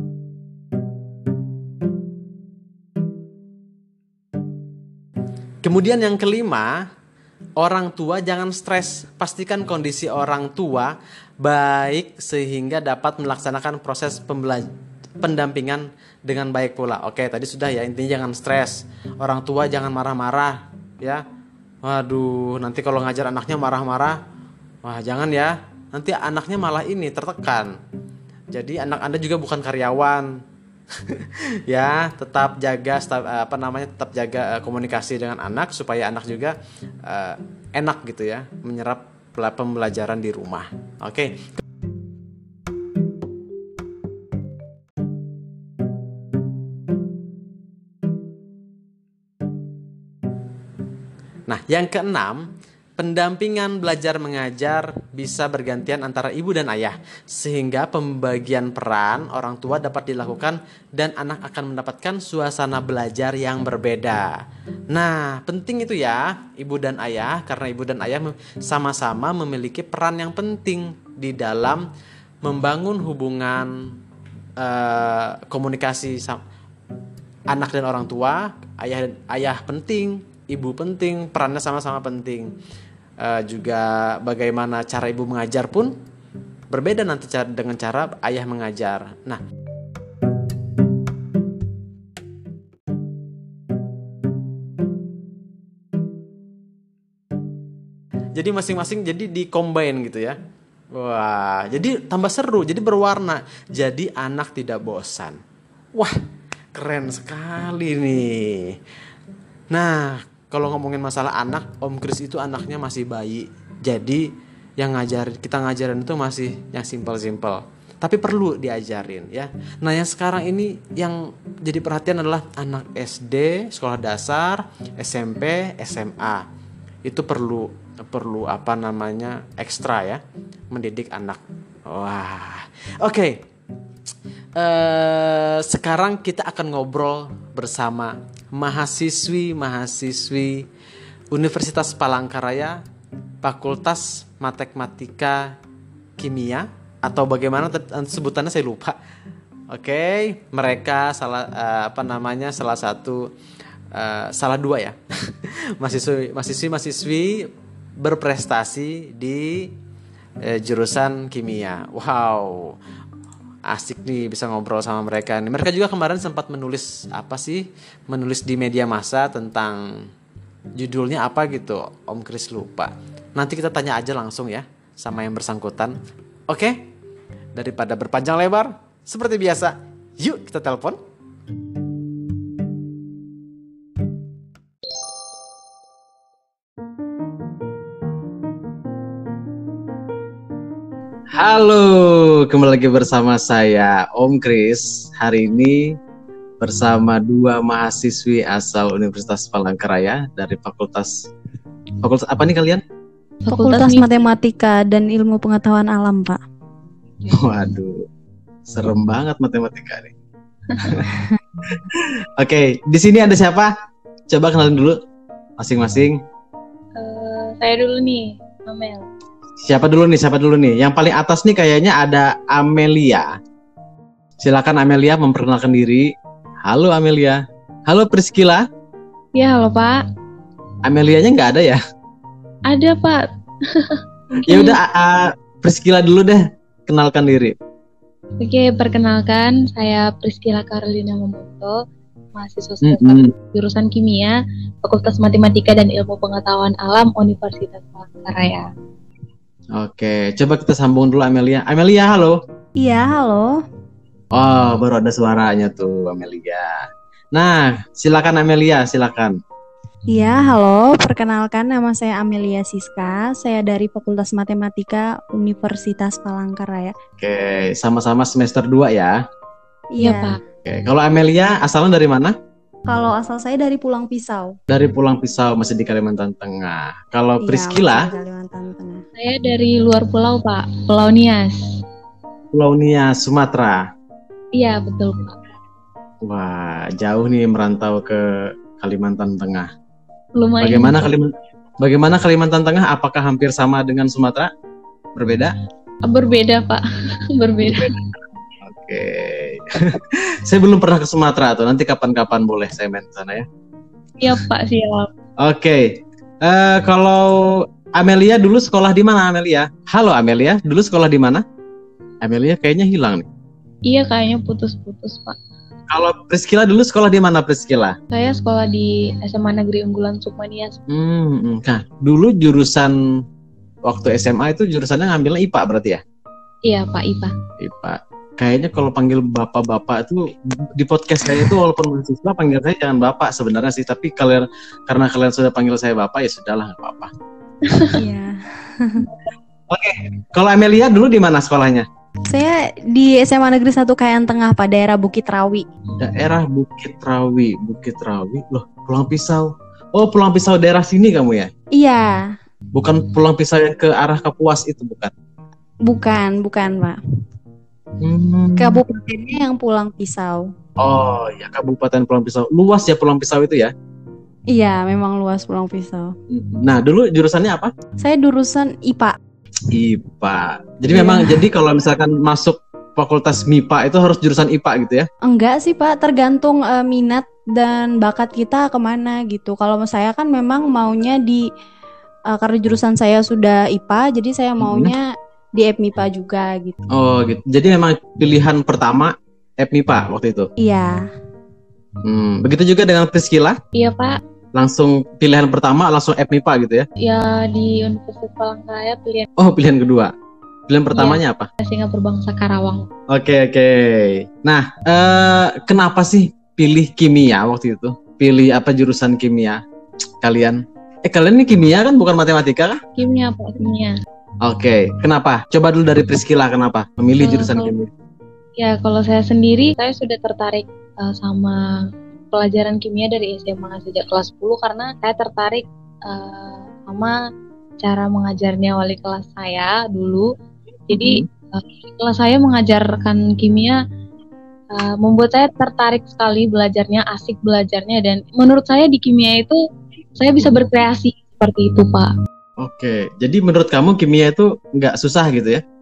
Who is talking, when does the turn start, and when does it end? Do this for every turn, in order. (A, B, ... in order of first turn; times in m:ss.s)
0:05.6-0:06.9 A
0:07.6-0:14.7 A
0:15.2-0:21.2 A
0:21.8-0:24.2 A
0:24.8-0:27.7 A
0:28.5-0:30.3 A
0:31.0-0:41.6 A
0:51.5-1:04.4 A
1:04.9-1:11.9 A
1:12.4-1:13.9 A
1:14.6-1:16.4 A
1:17.5-1:22.5 A
1:23.2-1:26.0 A
1:26.7-1:29.4 A
1:38.4-1:40.4 A
1:40.9-1:45.4 A
1:46.7-1:48.8 A
1:49.7-1:54.3 A
1:54.8-2:06.4 A
2:07.0-2:13.4 A
2:14.6-2:20.7 A
2:21.3-2:22.8 A
2:23.4-2:25.6 A
2:26.2-2:29.0 A
2:29.7-2:33.3 A
2:33.9-2:37.5 A
2:38.0-2:39.7 A
2:40.4-2:42.8 A
2:43.7-2:50.0 A
2:50.8-2:56.0 A
2:56.5-2:56.9 A
2:57.6-3:01.0 A
3:11.4-3:16.0 A
3:16.6-3:21.3 A
3:22.0-3:22.8 A
3:23.4-3:24.1 B
3:23.5-3:26.4 C
3:27.3-3:28.0 A
3:28.7-3:30.1 A
3:30.8-3:31.1 A
3:31.1-3:31.4 C
3:31.7-3:33.7 A
3:34.3-3:35.0 A
3:35.6-3:36.2 A
3:37.0-3:39.1 B
3:39.6-3:43.3 A
3:44.4-3:46.1 A
3:46.6-3:48.7 A
3:49.4-3:50.0 B
3:50.8-3:51.8 A
3:52.7-3:54.8 B
3:54.5-3:57.6 A
3:58.4-4:01.8 B
4:02.4-4:08.7 B
4:02.8-4:03.3 A
4:09.8-4:12.4 A
4:12.8-4:13.6 C
4:14.3-4:16.8 A
4:17.3-4:19.4 A
4:20.1-4:26.9 C
4:27.2-4:29.2 A
4:29.9-4:30.4 C
4:30.0-4:30.4 B
4:30.6-4:32.4 A
4:32.9-4:34.6 C
4:34.7-4:38.1 A
4:37.4-4:39.0 C
4:39.2-4:41.8 B
4:42.5-4:43.9 A
4:44.6-4:45.4 B
4:46.2-4:48.2 A
4:48.8-4:49.7 A
4:50.4-4:51.1 B
4:50.6-4:54.5 A
4:55.2-4:55.5 A
4:56.0-4:58.0 B
4:57.6-4:58.0 A
4:58.6-5:03.5 A
5:04.2-5:05.1 B
5:05.4-5:11.4 A
5:12.2-5:13.3 A
5:13.9-5:15.4 B
5:15.9-5:18.0 A
5:18.1-5:20.8 B
5:20.9-5:23.0 A
5:23.9-5:26.0 A
5:26.7-5:27.3 B
5:27.6-5:37.1 A
5:37.7-5:38.0 B
5:37.9-5:39.1 C
5:39.7-5:41.9 A
5:42.3-5:45.7 C
5:46.0-5:51.5 A
5:51.8-5:52.3 C
5:52.7-5:55.1 A
5:55.8-5:57.0 C
5:58.0-5:58.8 A
5:58.6-6:00.5 C
6:00.8-6:03.7 A
6:04.5-6:06.2 C
6:06.3-6:07.7 A
6:08.0-6:09.2 C
6:09.7-6:15.1 A
6:10.9-6:11.5 C
6:15.2-6:21.5 C
6:22.3-6:26.8 C
6:24.6-6:24.9 A
6:26.9-6:30.5 A
6:30.6-6:31.1 C
6:32.0-6:33.6 A
6:33.8-6:34.2 B
6:34.6-6:36.9 A
6:37.0-6:39.3 B
6:39.4-6:40.1 A
6:40.7-6:41.5 A
6:40.9-6:42.9 B
6:43.1-6:49.6 A
6:50.2-6:52.8 A
6:53.0-6:54.0 B
6:54.4-6:57.9 A
6:57.2-6:57.7 B
6:58.6-7:01.6 B
7:02.3-7:07.2 B
7:07.8-7:10.3 B
7:10.9-7:13.8 B
7:10.9-7:11.3 A
7:14.7-7:19.6 B
7:20.2-7:22.1 B
7:22.6-7:25.6 A